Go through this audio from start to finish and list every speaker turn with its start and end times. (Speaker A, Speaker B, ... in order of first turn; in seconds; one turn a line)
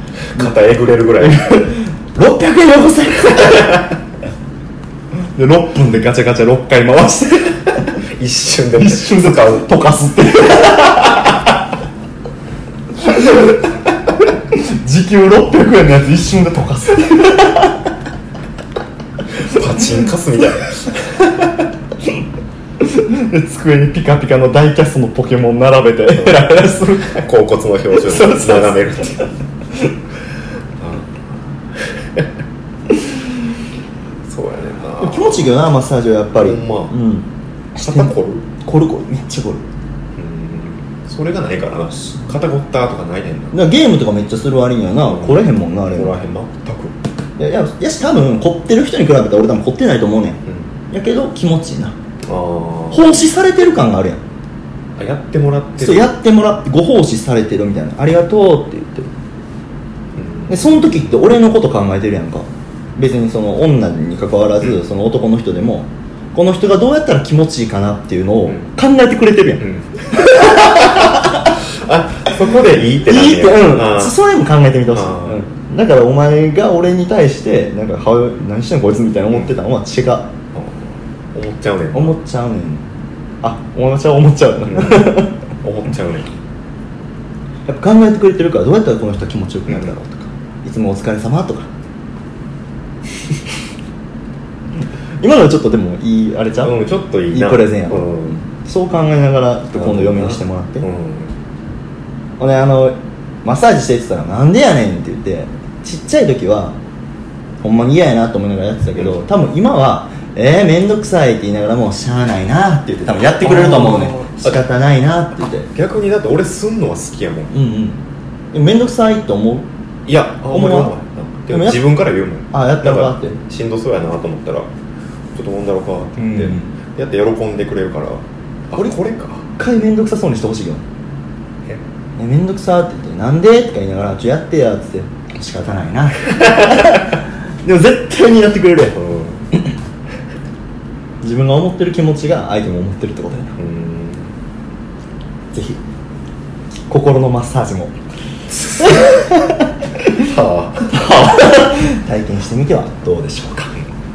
Speaker A: 0.3-1.4
Speaker B: 1.2-3.8
Speaker B: 5.3-7.9
Speaker A: 8.1-9.7
Speaker B: 8.8-11.4
Speaker B: 13.0-13.6
Speaker B: 14.5-17.8
Speaker A: 19.4-21.3
Speaker B: 22.8-27.2
Speaker A: 26.1-26.5
Speaker A: 27.1-29.3
Speaker B: 28.0-29.2
Speaker A: 30.8-32.3
Speaker A: 34.2-35.5
Speaker B: 35.0-39.6
Speaker A: 36.4-37.0
Speaker A: 37.8-38.5
Speaker A: 40.2-43.5
Speaker B: 43.5-46.2
Speaker A: 45.0-47.0
Speaker B: 47.4-52.0
Speaker A: 52.2-53.0
Speaker B: 52.9-54.2
Speaker A: 55.0-56.1
Speaker B: 55.8-59.1
Speaker A: 60.1-61.0
Speaker B: 60.5-71.5
Speaker A: 69.6-69.9
Speaker A: 71.6-74.2
Speaker B: 73.0-80.3
Speaker A: 74.9-75.4
Speaker A: 80.5-82.1
Speaker B: 81.9-82.8
Speaker B: 83.4-85.4
Speaker A: 84.7-86.4
Speaker B: 87.7-91.7
Speaker A: 89.7-89.9
Speaker B: 95.2-96.8
Speaker A: 96.6-98.4
Speaker B: 97.3-100.9
Speaker A: 99.8-101.3
Speaker B: 102.4-106.8
Speaker B: 107.6-115.7
Speaker A: 113.4-114.6
Speaker A: 115.7-117.5
Speaker B: 117.5-118.0
Speaker B: 118.5-119.7
Speaker A: 120.1-124.7
Speaker B: 120.5-121.0
Speaker B: 121.5-121.8
Speaker B: 122.5-123.4
Speaker A: 125.3-129.5
Speaker B: 126.2-126.7
Speaker B: 129.6-130.8
Speaker B: 132.2-139.0
Speaker A: 138.9-139.4
Speaker B: 141.2-143.6
Speaker A: 143.6-144.3
Speaker B: 145.5-145.8
Speaker B: 146.9-147.9
Speaker B: 148.7-150.2
Speaker A: 150.2-150.9
Speaker B: 150.8-153.8